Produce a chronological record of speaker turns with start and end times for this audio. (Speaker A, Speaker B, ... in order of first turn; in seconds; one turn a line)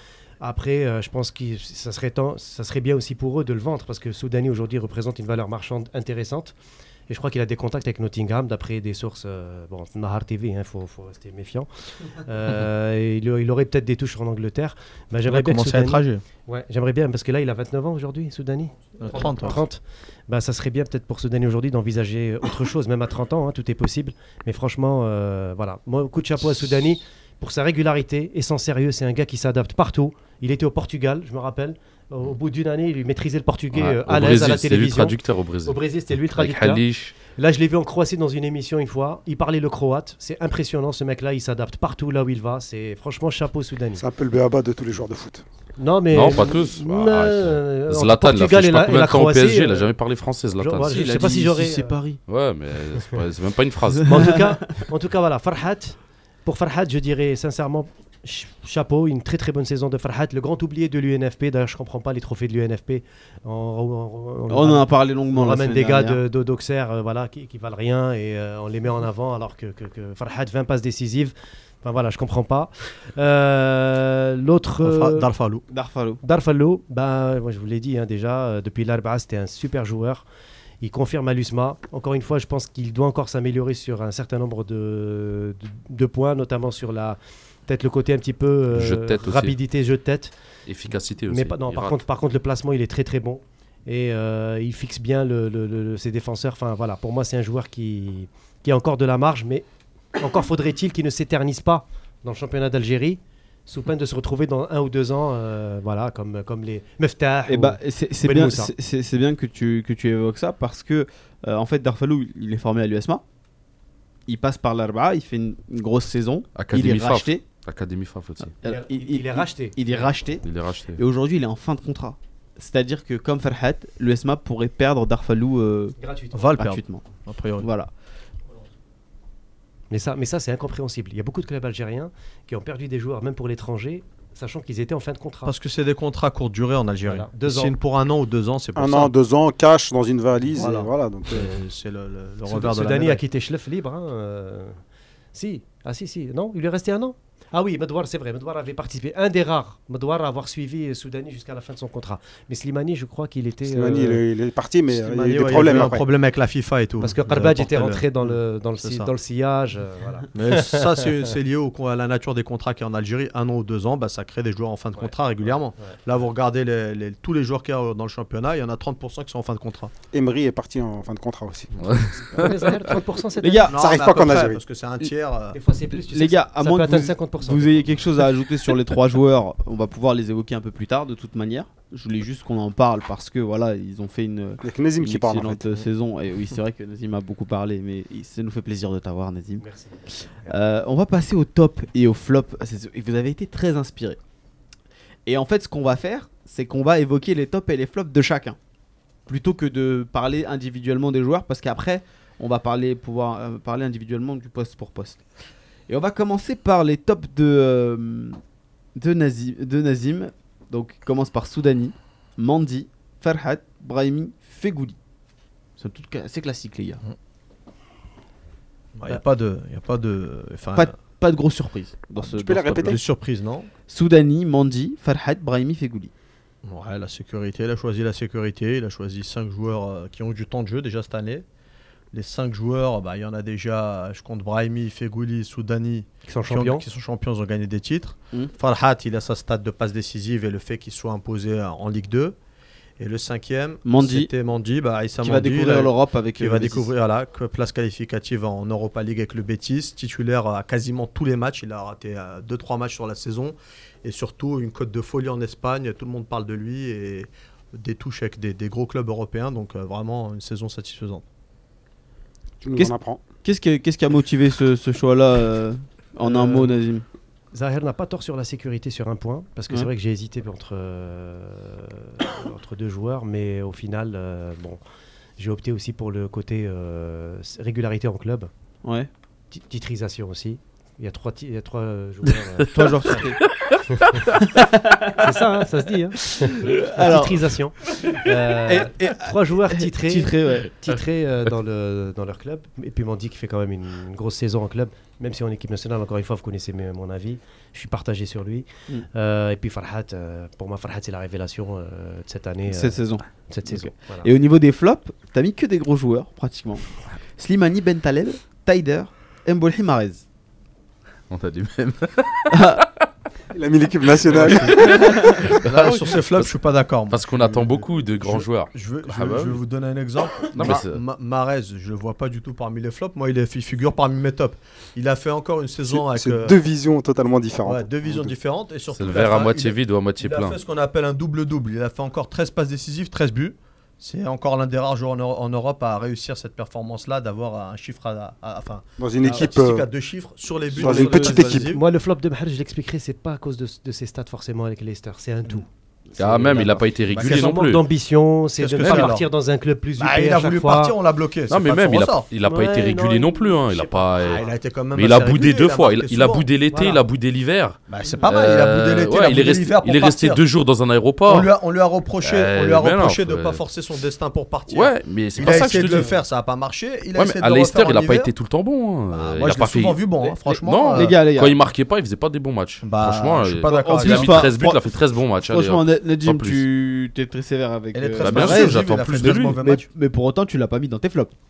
Speaker A: 0.4-6.5
Speaker A: 7.1-44.0
Speaker B: 15.2-16.2
Speaker B: 19.0-19.6
Speaker C: 33.7-37.2
Speaker D: 44.0-45.4
Speaker A: 45.8-49.9
Speaker C: 46.1-51.0
Speaker A: 50.6-52.0
Speaker E: 50.8-52.2
Speaker C: 52.3-54.4
Speaker E: 54.0-54.4
Speaker A: 54.0-75.3
Speaker E: 64.5-66.2
Speaker B: 74.8-75.6
Speaker E: 75.7-76.2
Speaker A: 76.2-80.2
Speaker A: 80.8-90.3
Speaker C: 88.7-89.6
Speaker C: 90.7-92.0
Speaker A: 91.3-99.7
Speaker A: 100.2-108.7
Speaker E: 107.5-113.2
Speaker E: 114.3-117.4
Speaker C: 116.5-118.5
Speaker E: 118.6-120.4
Speaker A: 118.6-120.0
Speaker C: 120.4-121.0
Speaker E: 121.0-126.0
Speaker A: 126.0-126.5
Speaker B: 126.3-127.7
Speaker E: 126.6-127.0
Speaker E: 127.6-127.9
Speaker A: 129.9-135.5
Speaker B: 135.4-139.1
Speaker A: 137.1-137.8
Speaker D: 138.8-141.5
Speaker B: 140.5-143.2
Speaker A: 142.5-144.8
Speaker A: 145.3-154.2
Speaker D: 153.7-156.1
Speaker B: 154.9-159.1
Speaker A: 157.0-161.1
Speaker B: 160.3-169.9
Speaker D: 170.1-172.1
Speaker C: 171.8-172.8
Speaker A: 172.3-173.7
Speaker E: 173.4-173.8
Speaker B: 173.7-175.6
Speaker D: 173.8-174.6
Speaker A: 175.5-177.9
Speaker E: 175.9-194.2
Speaker D: 184.6-185.6
Speaker A: 189.6-190.5
Speaker E: 195.3-198.6
Speaker E: 199.3-205.2
Speaker E: 205.9-208.4
Speaker E: 209.0-215.0
Speaker E: 215.8-217.0
Speaker B: 219.0-220.9
Speaker E: 220.8-223.0
Speaker D: 222.2-223.0
Speaker B: 222.6-223.7
Speaker E: 223.9-226.1
Speaker B: 226.6-231.4
Speaker B: 232.1-242.4
Speaker A: 236.3-236.8
Speaker B: 243.0-261.2
Speaker E: 243.8-244.3
Speaker E: 245.2-246.9
Speaker D: 262.6-263.2
Speaker E: 262.8-267.1
Speaker A: 266.2-266.7
Speaker A: 267.5-274.8
Speaker A: 275.4-278.5
Speaker E: 278.8-279.1
Speaker A: 279.5-283.2
Speaker E: 282.7-283.4
Speaker C: 283.4-284.4
Speaker A: 283.9-284.2
Speaker E: 284.4-285.4
Speaker A: 285.1-304.3
Speaker E: 286.2-290.7
Speaker E: 302.7-310.2
Speaker C: 311.3-313.1
Speaker E: 312.5-312.8
Speaker D: 313.5-315.4
Speaker C: 314.3-316.5
Speaker B: 314.4-326.6
Speaker E: 314.9-315.3
Speaker C: 317.1-319.6
Speaker C: 320.5-321.0
Speaker D: 325.9-328.3
Speaker B: 327.6-341.8
Speaker C: 328.9-330.6
Speaker D: 339.0-339.9
Speaker D: 340.8-341.7
Speaker E: 340.8-341.5
Speaker A: 341.6-345.7
Speaker C: 346.2-347.8
Speaker A: 346.2-350.9
Speaker E: 346.3-346.8
Speaker B: 347.1-347.5
Speaker B: 348.6-349.3
Speaker C: 348.8-349.1
Speaker B: 350.0-352.3
Speaker C: 351.5-361.5
Speaker A: 352.4-354.5
Speaker B: 354.2-356.5
Speaker A: 356.7-357.0
Speaker B: 357.9-360.4
Speaker B: 361.3-368.3
Speaker C: 362.2-363.6
Speaker C: 364.7-366.1
Speaker E: 365.5-366.1
Speaker C: 367.2-370.0
Speaker B: 369.1-371.2
Speaker E: 370.2-371.6
Speaker C: 370.5-376.6
Speaker B: 372.8-374.6
Speaker E: 373.7-381.3
Speaker B: 377.9-379.9
Speaker C: 378.2-379.6